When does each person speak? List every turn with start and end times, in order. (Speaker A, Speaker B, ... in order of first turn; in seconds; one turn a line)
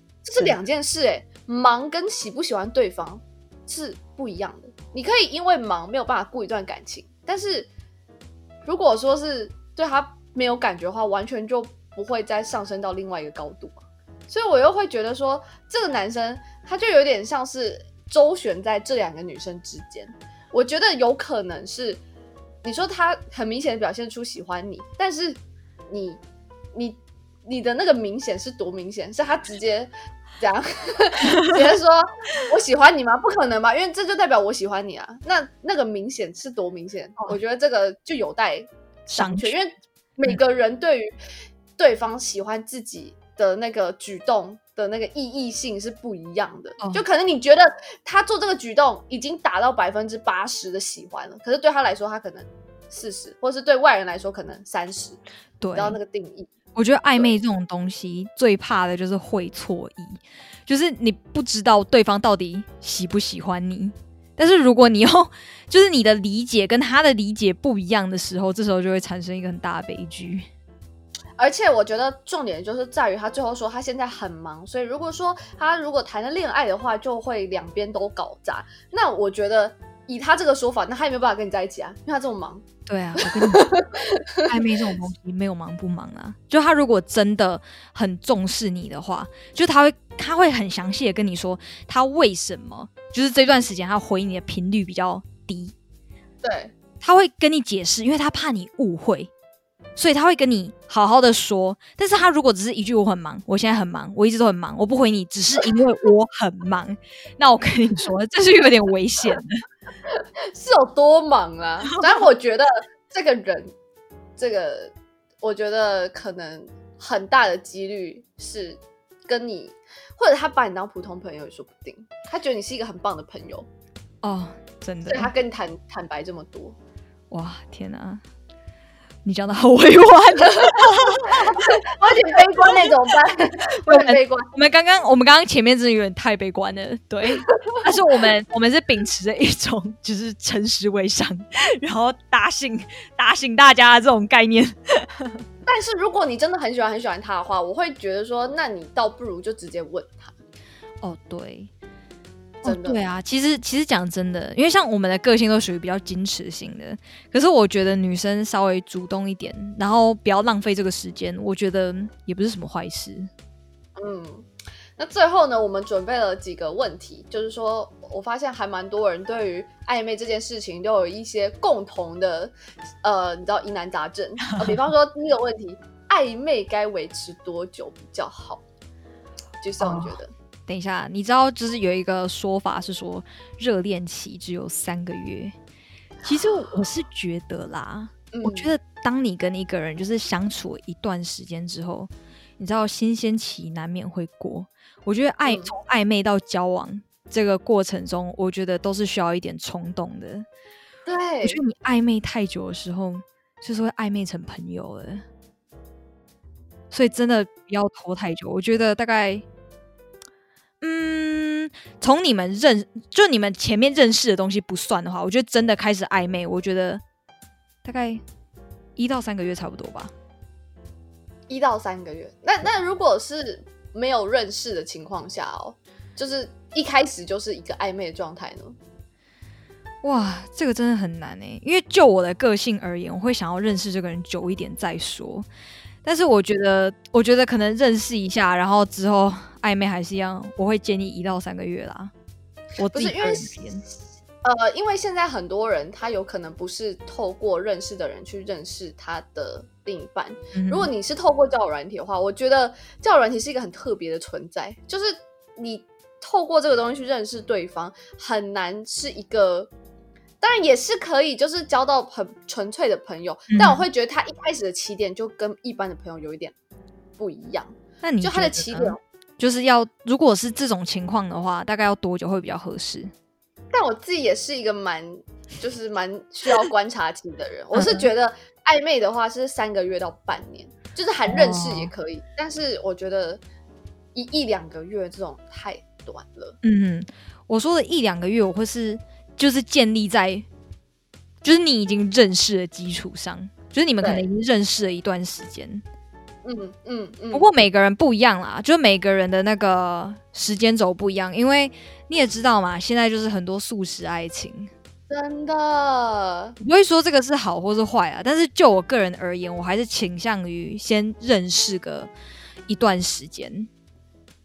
Speaker A: 0.2-7.7
Speaker A: 8.7-22.0
Speaker A: 22.6-25.4
Speaker A: 25.9-26.2
Speaker A: 26.7-41.1
Speaker B: 39.1-39.5
Speaker A: 41.8-55.2
Speaker B: 55.6-56.0
Speaker A: 55.7-56.5
Speaker B: 56.7-70.5
Speaker A: 71.4-82.6
Speaker B: 82.8-83.7
Speaker A: 83.2-84.5
Speaker B: 84.5-95.7
Speaker A: 96.4-96.7
Speaker B: 97.0-99.3
Speaker B: 100.0-109.5
Speaker A: 110.1-113.7
Speaker A: 114.4-123.7
Speaker B: 124.2-125.3
Speaker A: 125.1-126.8
Speaker B: 127.3-128.2
Speaker B: 129.2-132.9
Speaker A: 130.7-134.5
Speaker B: 133.8-145.4
Speaker A: 137.5-137.8
Speaker A: 145.7-150.3
Speaker B: 151.0-151.7
Speaker B: 152.6-163.3
Speaker A: 152.6-153.0
Speaker A: 164.0-178.6
Speaker A: 179.6-180.3
Speaker B: 179.8-185.5
Speaker A: 186.2-186.7
Speaker B: 186.2-200.5
Speaker A: 188.3-188.7
Speaker A: 195.4-195.7
Speaker A: 201.1-201.6
Speaker B: 201.4-205.2
Speaker B: 206.9-209.4
Speaker B: 210.8-217.0
Speaker B: 217.8-218.2
Speaker B: 218.9-220.1
Speaker A: 221.5-228.8
Speaker B: 230.0-235.5
Speaker B: 236.0-242.1
Speaker B: 242.8-243.8
Speaker A: 242.9-243.6
Speaker A: 244.4-259.7
Speaker B: 250.5-250.9
Speaker A: 260.4-266.5
Speaker B: 263.5-263.8
Speaker A: 267.2-269.0
Speaker B: 268.0-273.1
Speaker A: 273.7-283.4
Speaker B: 277.7-278.1
Speaker B: 281.3-281.9
Speaker A: 284.1-286.6
Speaker B: 286.6-290.5
Speaker B: 291.4-295.8
Speaker A: 294.0-294.2
Speaker A: 296.4-297.5
Speaker B: 297.3-304.7
Speaker A: 305.1-306.6
Speaker B: 306.6-312.1
Speaker B: 312.7-313.7